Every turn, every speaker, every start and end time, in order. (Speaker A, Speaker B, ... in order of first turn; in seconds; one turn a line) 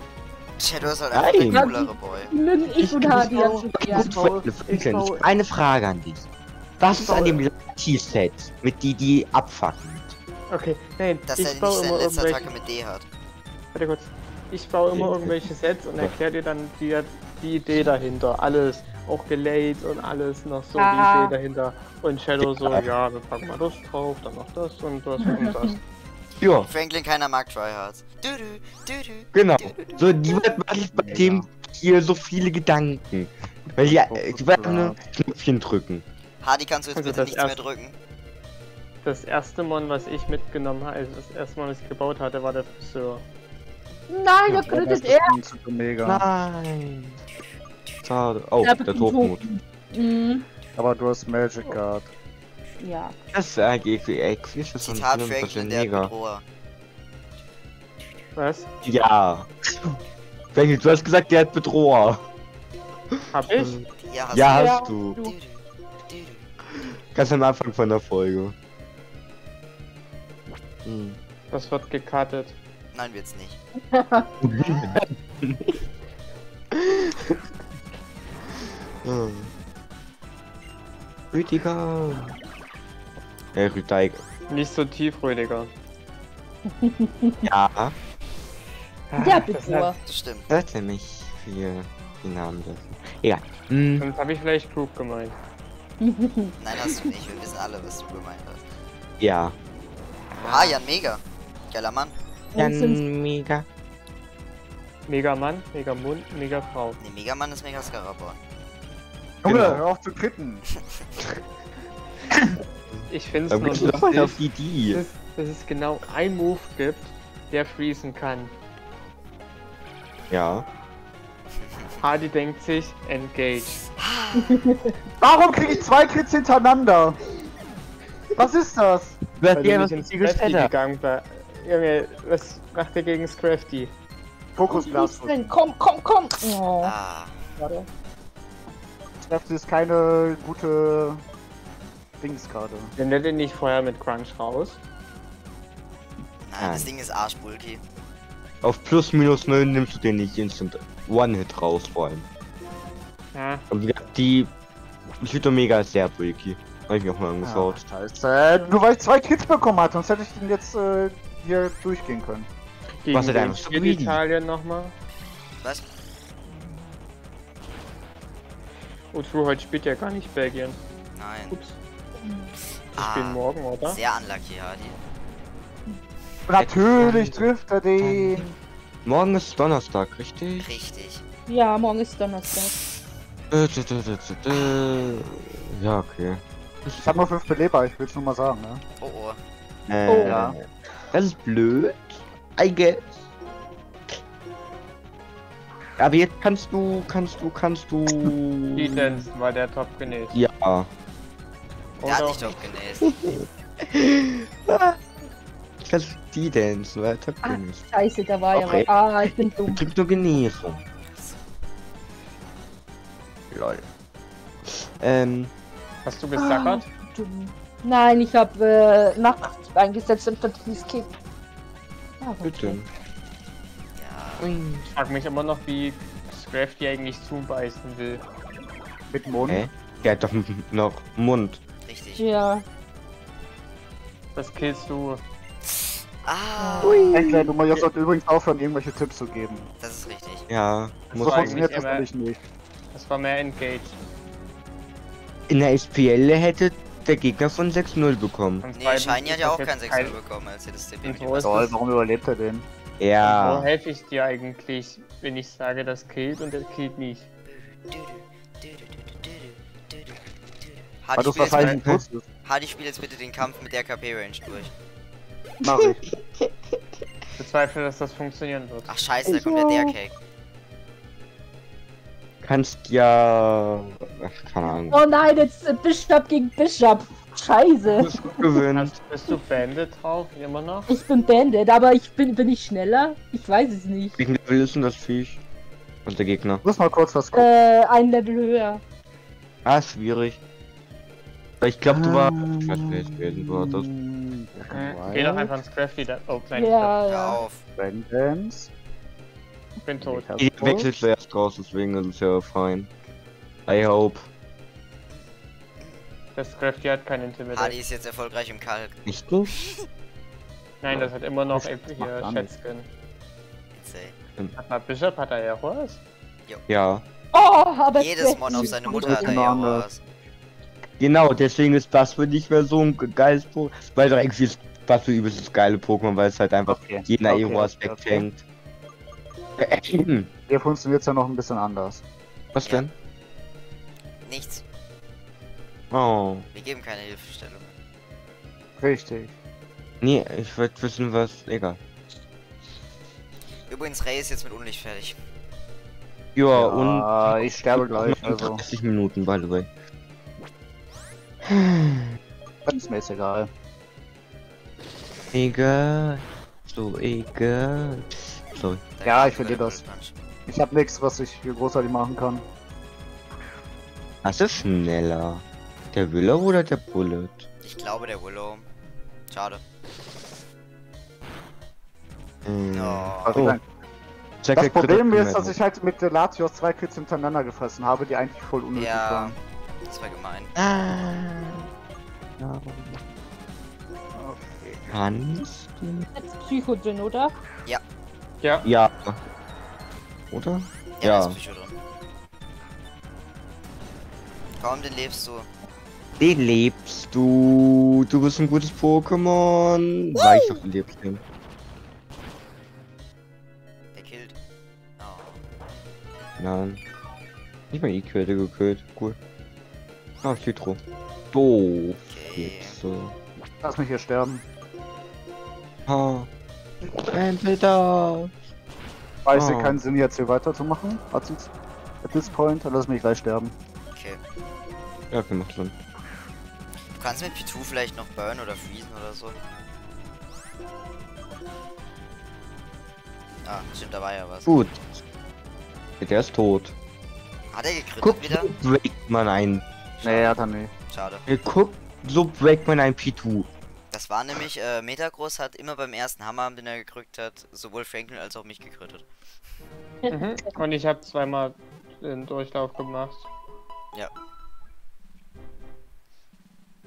Speaker A: 0.6-2.3
Speaker B: 1.1-1.7
Speaker C: 1.4-4.2
Speaker B: 2.7-6.2
Speaker D: 3.0-5.2
Speaker B: 6.8-10.2
Speaker D: 6.9-7.4
Speaker D: 10.5-12.5
Speaker A: 11.3-13.1
Speaker D: 13.7-25.8
Speaker B: 14.9-15.4
Speaker C: 20.8-21.4
Speaker B: 22.4-22.9
Speaker C: 25.2-25.7
Speaker B: 26.4-26.7
Speaker A: 26.6-29.3
Speaker B: 29.3-36.0
Speaker E: 31.0-31.4
Speaker E: 33.8-35.0
Speaker A: 36.4-38.0
Speaker D: 37.0-37.6
Speaker D: 39.0-43.2
Speaker C: 44.1-45.4
Speaker E: 44.6-46.2
Speaker B: 46.0-47.2
Speaker B: 48.0-49.5
Speaker C: 48.6-50.5
Speaker E: 50.8-52.1
Speaker C: 52.8-53.1
Speaker B: 53.3-56.1
Speaker A: 54.8-56.4
Speaker D: 58.4-58.7
Speaker B: 58.8-60.0
Speaker B: 60.5-62.2
Speaker B: 63.1-65.2
Speaker D: 63.3-63.8
Speaker A: 64.0-66.5
Speaker C: 64.5-65.3
Speaker B: 67.1-68.5
Speaker B: 70.8-71.2
Speaker D: 71.5-72.6
Speaker A: 72.9-73.6
Speaker C: 73.9-74.9
Speaker B: 74.4-75.7
Speaker B: 76.7-77.4
Speaker B: 79.0-79.5
Speaker B: 81.3-82.3
Speaker B: 83.5-84.2
Speaker D: 84.5-85.7
Speaker C: 86.8-87.5
Speaker B: 87.5-87.9
Speaker D: 89.1-89.9
Speaker C: 89.2-90.0
Speaker A: 90.1-90.5
Speaker B: 90.5-94.1
Speaker D: 94.0-95.4
Speaker C: 96.0-96.6
Speaker A: 96.6-98.6
Speaker B: 99.2-99.5
Speaker A: 100.4-102.1
Speaker B: 100.4-100.7
Speaker C: 102.5-103.0
Speaker B: 102.6-103.7
Speaker D: 105.1-107.0
Speaker A: 107.0-108.4
Speaker B: 109.4-109.8
Speaker E: 109.4-110.6
Speaker B: 112.9-115.0
Speaker D: 113.1-114.4
Speaker D: 114.9-118.5
Speaker B: 120.3-120.7
Speaker D: 122.0-123.9
Speaker A: 124.0-124.6
Speaker C: 124.4-124.9
Speaker E: 125.2-127.2
Speaker E: 128.4-129.9
Speaker B: 129.4-130.7
Speaker D: 129.7-133.9
Speaker E: 134.6-135.5
Speaker C: 134.7-136.9
Speaker A: 136.8-137.4
Speaker C: 137.6-137.9
Speaker E: 139.3-141.2
Speaker E: 142.2-142.9
Speaker D: 143.0-144.8
Speaker A: 146.4-147.8
Speaker B: 146.6-146.9
Speaker B: 148.6-152.3
Speaker D: 153.3-153.6
Speaker B: 153.7-154.5
Speaker B: 155.2-157.8
Speaker E: 157.4-162.5
Speaker D: 163.0-164.9
Speaker B: 163.1-164.2
Speaker D: 169.1-170.8
Speaker A: 171.2-171.6
Speaker D: 171.5-171.8
Speaker C: 172.2-172.5
Speaker A: 172.9-175.0
Speaker D: 172.9-174.0
Speaker E: 176.5-178.4
Speaker B: 176.6-180.7
Speaker A: 180.6-181.2
Speaker C: 181.5-182.8
Speaker A: 182.5-182.9
Speaker B: 183.5-187.2
Speaker E: 187.1-188.8
Speaker A: 189.0-189.4
Speaker B: 189.9-193.1
Speaker C: 190.1-190.5
Speaker E: 190.2-190.6
Speaker B: 196.0-199.2
Speaker D: 198.7-200.4
Speaker B: 200.3-200.9
Speaker D: 202.0-202.6
Speaker A: 202.0-203.1
Speaker B: 203.0-205.0
Speaker B: 205.8-207.9
Speaker C: 207.4-209.8
Speaker B: 208.5-210.8
Speaker A: 211.1-211.4
Speaker B: 213.5-213.8
Speaker B: 214.7-215.5
Speaker D: 216.1-216.9
Speaker C: 216.4-221.1
Speaker C: 222.2-222.8
Speaker B: 222.4-222.9
Speaker A: 224.0-224.5
Speaker B: 224.4-224.9
Speaker D: 224.9-228.2
Speaker E: 229.1-229.7
Speaker B: 229.5-231.6
Speaker A: 231.9-232.2
Speaker C: 232.2-232.7
Speaker D: 234.3-235.2
Speaker A: 235.7-237.2
Speaker B: 236.8-237.5
Speaker E: 236.8-239.7
Speaker A: 239.8-240.5
Speaker B: 240.5-241.7
Speaker D: 241.1-242.1
Speaker E: 241.2-242.4
Speaker D: 242.9-244.0
Speaker B: 245.5-248.7
Speaker D: 248.6-250.2
Speaker A: 248.8-251.7
Speaker D: 251.0-251.7
Speaker E: 251.4-252.7
Speaker B: 253.0-253.7
Speaker D: 253.2-257.3
Speaker A: 257.5-261.8
Speaker E: 261.2-262.2
Speaker B: 261.7-262.0
Speaker A: 262.4-264.7
Speaker E: 265.6-266.0
Speaker B: 265.7-267.0
Speaker D: 267.4-268.9
Speaker A: 268.9-270.1
Speaker B: 269.3-269.9
Speaker B: 272.4-275.0
Speaker C: 274.7-278.4
Speaker B: 278.0-278.9
Speaker D: 278.7-280.9
Speaker C: 280.9-284.2
Speaker B: 284.2-285.4
Speaker B: 286.1-286.6
Speaker E: 286.6-287.5
Speaker C: 287.3-288.8
Speaker B: 289.6-290.4
Speaker B: 291.6-293.9
Speaker E: 291.9-295.6
Speaker D: 294.7-297.0
Speaker C: 296.6-297.4
Speaker A: 297.1-297.6
Speaker E: 297.8-298.7
Speaker D: 299.8-300.3
Speaker E: 300.0-300.9
Speaker B: 300.4-302.9
Speaker B: 303.7-304.3
Speaker A: 305.1-306.0
Speaker D: 306.4-307.8
Speaker A: 307.5-309.9
Speaker B: 309.1-309.5
Speaker D: 310.8-312.9
Speaker E: 311.5-312.5
Speaker A: 313.7-314.1
Speaker D: 314.6-316.0
Speaker B: 316.7-317.0
Speaker C: 317.3-319.4
Speaker A: 318.0-320.0
Speaker E: 318.5-319.9
Speaker B: 321.0-328.4
Speaker E: 326.7-328.2
Speaker B: 329.6-330.3
Speaker E: 330.5-332.0
Speaker B: 332.5-332.9
Speaker A: 334.2-334.6
Speaker B: 335.9-336.5
Speaker A: 336.5-337.7
Speaker E: 338.8-339.3
Speaker B: 340.0-341.8
Speaker A: 343.7-345.2
Speaker B: 346.4-349.7
Speaker E: 346.6-348.6
Speaker B: 351.4-352.2
Speaker E: 352.7-353.5
Speaker B: 355.3-358.8
Speaker A: 359.0-360.2
Speaker E: 359.0-359.8
Speaker E: 360.5-362.4
Speaker B: 364.2-367.5
Speaker A: 367.6-368.7
Speaker A: 369.3-369.6
Speaker B: 372.4-373.6
Speaker A: 372.7-373.4
Speaker E: 373.3-373.6
Speaker B: 374.4-375.6
Speaker E: 374.6-379.4
Speaker A: 378.7-380.5
Speaker B: 380.6-381.7
Speaker B: 382.4-383.0
Speaker E: 384.2-384.8
Speaker B: 384.9-386.1
Speaker C: 386.2-387.3
Speaker B: 388.6-389.2
Speaker B: 390.3-391.4
Speaker A: 391.0-391.8
Speaker A: 394.6-395.5
Speaker B: 396.2-401.2
Speaker A: 403.9-404.4
Speaker A: 405.0-405.4
Speaker B: 406.4-406.8
Speaker B: 407.7-409.2
Speaker B: 410.2-410.8
Speaker B: 411.3-413.2
Speaker A: 412.1-412.8
Speaker E: 413.6-414.4
Speaker B: 415.9-416.3
Speaker B: 416.9-418.4
Speaker E: 419.2-421.5
Speaker B: 419.3-419.8
Speaker E: 422.0-423.6
Speaker A: 423.9-424.2
Speaker B: 425.1-425.8
Speaker A: 426.9-429.4
Speaker A: 433.4-434.5
Speaker B: 434.5-435.0
Speaker B: 436.0-436.8
Speaker A: 437.5-438.5
Speaker B: 438.0-439.6
Speaker A: 440.0-441.3
Speaker E: 440.0-440.7
Speaker B: 441.3-443.5
Speaker A: 443.9-449.1
Speaker C: 450.0-450.5
Speaker D: 450.1-453.3